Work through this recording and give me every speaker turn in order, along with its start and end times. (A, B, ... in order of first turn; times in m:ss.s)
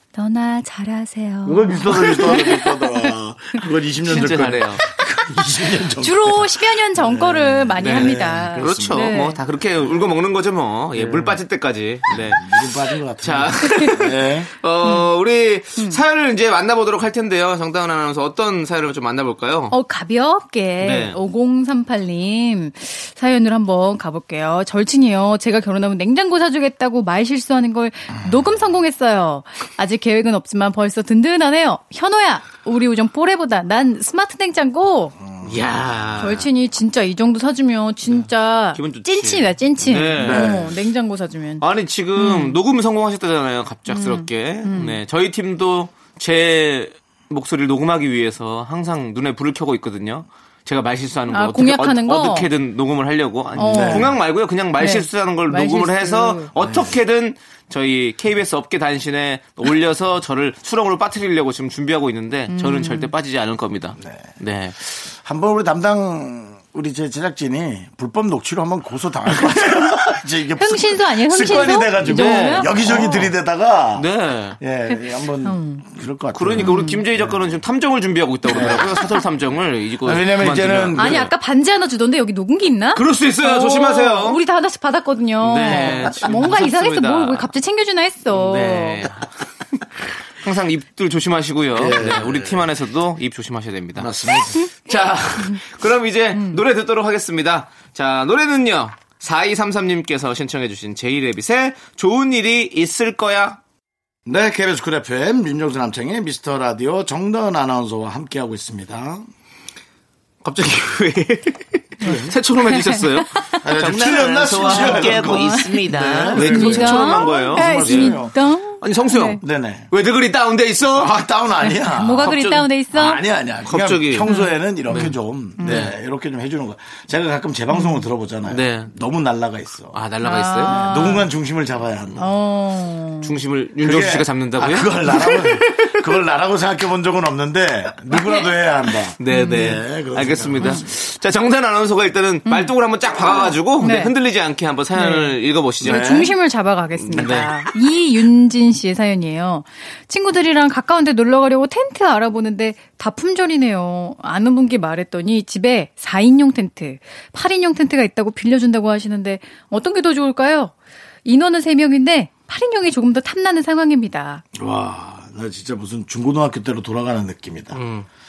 0:00.2-0:03.0 A
0:01.4-0:09.2 B
0:04.1-0:04.8 C
0:06.0-0:09.4 A
0:07.8-0:12.6 C
0:10.9-0:11.4 B
0:12.1-0:14.5 B
0:13.2-0:19.8 C
0:19.7-0:35.2 A
0:20.8-0:21.2 C
0:35.4-0:36.5 C
0:36.2-0:41.6 A
0:38.8-0:40.6 C
0:40.2-0:40.8 B
0:41.6-1:04.9 C
0:42.2-0:42.6 A
0:43.9-0:45.0 A
0:51.3-0:52.5 A
0:53.6-0:54.1 A
0:53.6-0:54.2 B
0:54.8-0:56.5 A
0:56.6-0:56.9 B
1:02.5-1:03.1 A
1:04.0-1:04.3 B
1:05.0-1:14.1 B
1:10.6-1:13.2 A
1:12.0-1:13.2 C
1:14.0-1:14.6 C
1:14.6-1:17.6 B
1:14.9-1:15.8 A
1:16.3-1:21.3 C
1:16.6-1:17.0 A
1:18.5-1:19.1 B
1:20.0-1:21.3 B
1:21.0-1:29.1 A
1:22.9-1:24.4 C
1:25.4-1:27.5 C
1:25.7-1:26.0 B
1:28.3-1:29.2 C
1:30.4-1:43.6 C
1:31.8-1:32.7 B
1:34.0-1:34.7 B
1:44.3-1:49.3 B
1:50.4-1:58.3 C
1:52.0-1:53.6 A
1:52.0-1:52.4 B
1:53.6-1:58.3 B
1:54.6-1:55.7 A
1:56.3-1:59.4 A
1:58.8-2:01.1 C
1:59.4-1:59.9 B
2:01.0-2:02.4 B
2:01.6-2:03.2 A
2:02.2-2:02.7 C
2:02.9-2:10.0 B
2:03.7-2:04.3 C
2:04.3-2:04.5 A
2:04.9-2:06.0 C
2:05.6-2:05.9 A
2:07.7-2:08.0 A
2:08.5-2:08.9 C
2:09.9-2:11.0 C
2:10.2-2:11.2 A
2:10.6-2:12.2 B
2:12.2-2:13.3 A
2:13.2-2:15.6 C
2:13.8-2:20.8 B
2:19.2-2:26.2 C
2:19.3-2:19.8 A
2:20.6-2:20.8 A
2:23.8-2:24.1 A
2:24.9-2:40.7 A
2:25.8-2:26.3 B
2:27.0-2:27.6 C
2:27.2-2:27.4 B
2:41.2-2:44.4 A
2:44.6-2:47.8 B
2:47.7-2:48.1 C